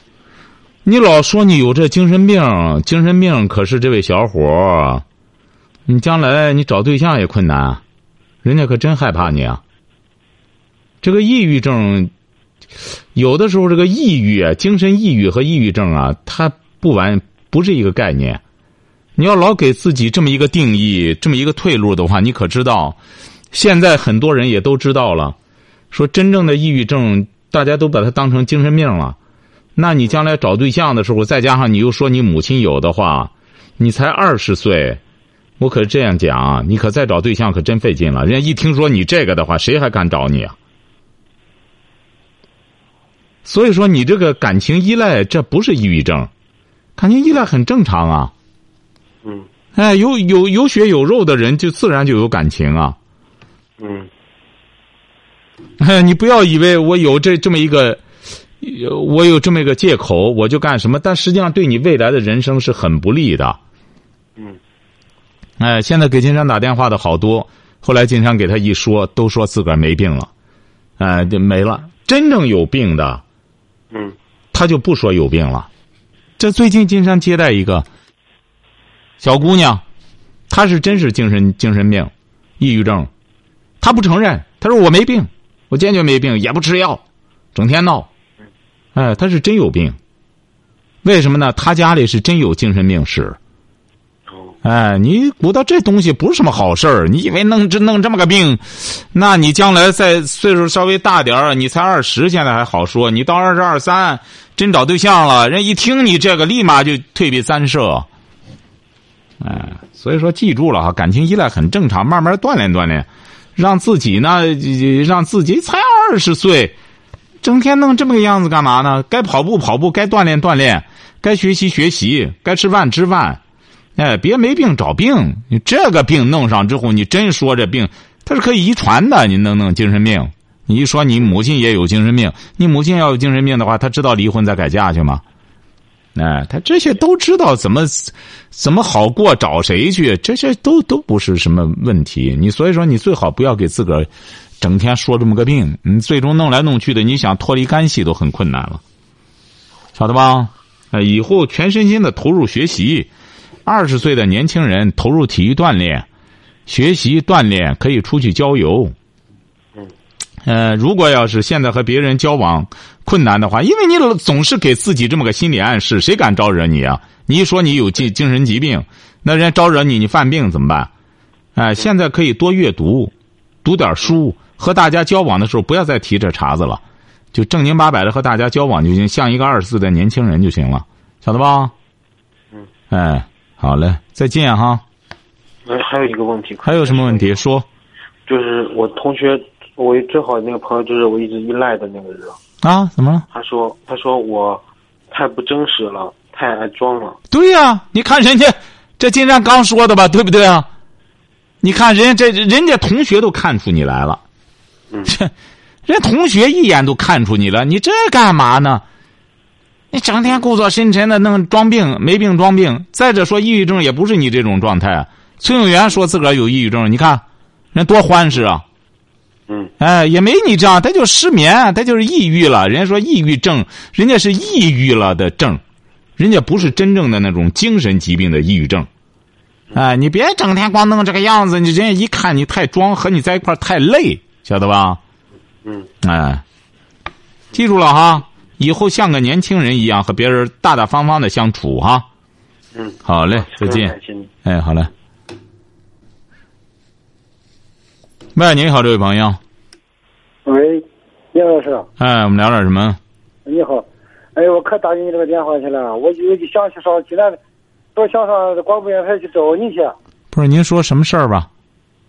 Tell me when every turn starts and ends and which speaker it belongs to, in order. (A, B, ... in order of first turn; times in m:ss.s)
0:00.8-0:05.0 A
0:05.9-0:07.8 A
0:08.4-0:09.6 A
0:11.0-0:12.1 A
0:13.1-0:18.4 A
0:19.2-0:23.0 A
0:23.5-0:25.4 A
0:25.9-0:29.2 A
0:29.8-0:35.0 A
0:35.6-0:40.6 A
0:43.4-0:46.3 A
0:47.0-0:48.3 A
0:49.7-0:53.0 A
0:53.8-0:54.1 B
0:55.8-0:58.0 A
0:58.6-1:03.6 A
1:05.6-1:10.3 A
1:11.0-1:13.2 A
1:14.5-1:15.7 A
1:16.4-1:17.8 A
1:19.2-1:19.8 A
1:20.5-1:23.1 A
1:23.8-1:27.0 A
1:27.5-1:28.1 A
1:28.9-1:30.0 A
1:31.0-1:33.4 A
1:34.3-1:34.5 B
1:34.6-1:48.1 A
1:49.4-1:56.8 A
1:57.4-2:03.4 A
2:04.0-2:15.2 A
2:16.1-2:24.1 A
2:24.6-2:28.8 A
2:30.0-2:33.1 A
2:33.6-2:36.0 A
2:36.7-2:38.9 A
2:40.4-2:50.9 A
2:51.6-2:53.1 A
2:53.6-2:56.8 A
2:57.3-3:01.7 A
3:02.9-3:04.8 A
3:05.6-3:07.3 B
3:06.6-3:07.7 A
3:08.3-3:12.4 B
3:12.6-3:13.2 A
3:13.3-3:17.2 B
3:17.3-3:20.7 A
3:21.6-3:24.2 A
3:25.1-3:25.3 A
3:25.9-3:28.8 A
3:29.9-3:37.2 A
3:37.7-3:38.6 A
3:39.8-3:45.6 A
3:46.2-3:48.9 A
3:49.7-3:55.0 A
3:55.6-3:55.9 B
3:56.0-3:56.4 A
3:57.5-4:02.1 A
4:02.7-4:04.3 B
4:03.0-4:03.9 A
4:04.4-4:04.9 A
4:08.3-4:09.4 A
4:10.4-4:11.8 C
4:12.0-4:13.0 A
4:13.4-4:17.4 C
4:17.9-4:19.9 C
4:20.3-4:21.5 A